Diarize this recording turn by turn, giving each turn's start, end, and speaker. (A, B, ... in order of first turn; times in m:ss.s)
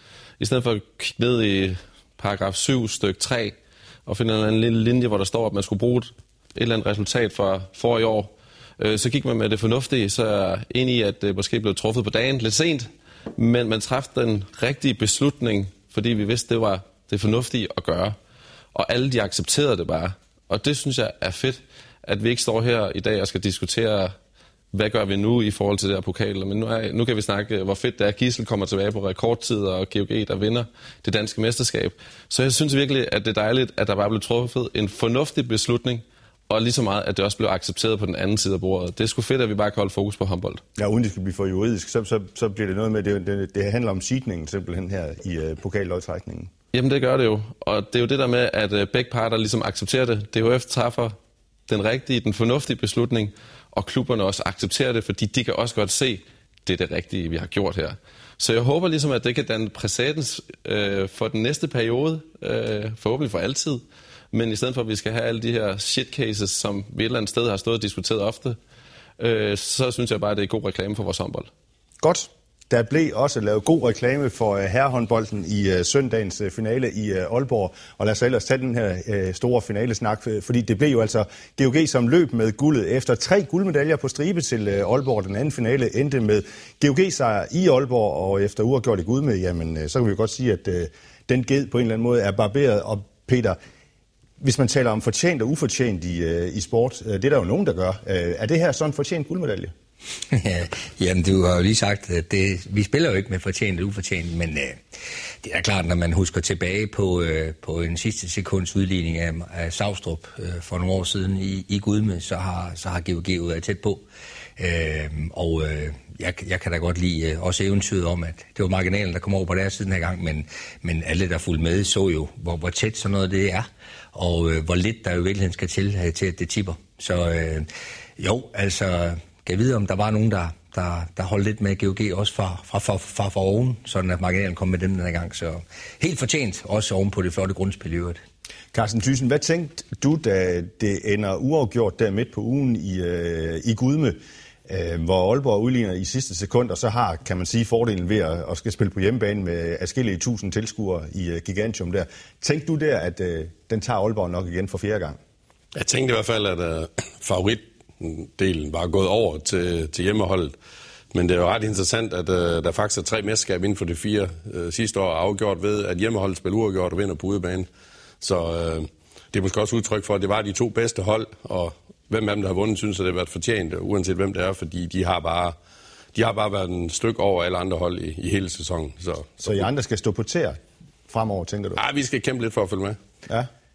0:00.4-0:18.2 A
0:18.7-0:24.2 A
0:24.7-0:40.6 A
0:40.8-0:46.5 B
0:46.7-0:51.2 A
0:51.7-1:08.6 A
1:09.2-1:11.5 A
1:12.0-1:33.6 B
1:34.4-1:39.7 B
1:40.3-1:44.8 C
1:45.4-1:54.0 C
1:54.6-2:18.2 C
2:18.7-2:35.2 B
2:35.7-2:40.5 D
2:41.1-2:47.7 D
2:48.2-2:55.6 D
2:56.1-2:59.6 D
2:59.4-3:00.6 B
3:01.1-3:01.8 B
3:01.8-3:03.0 D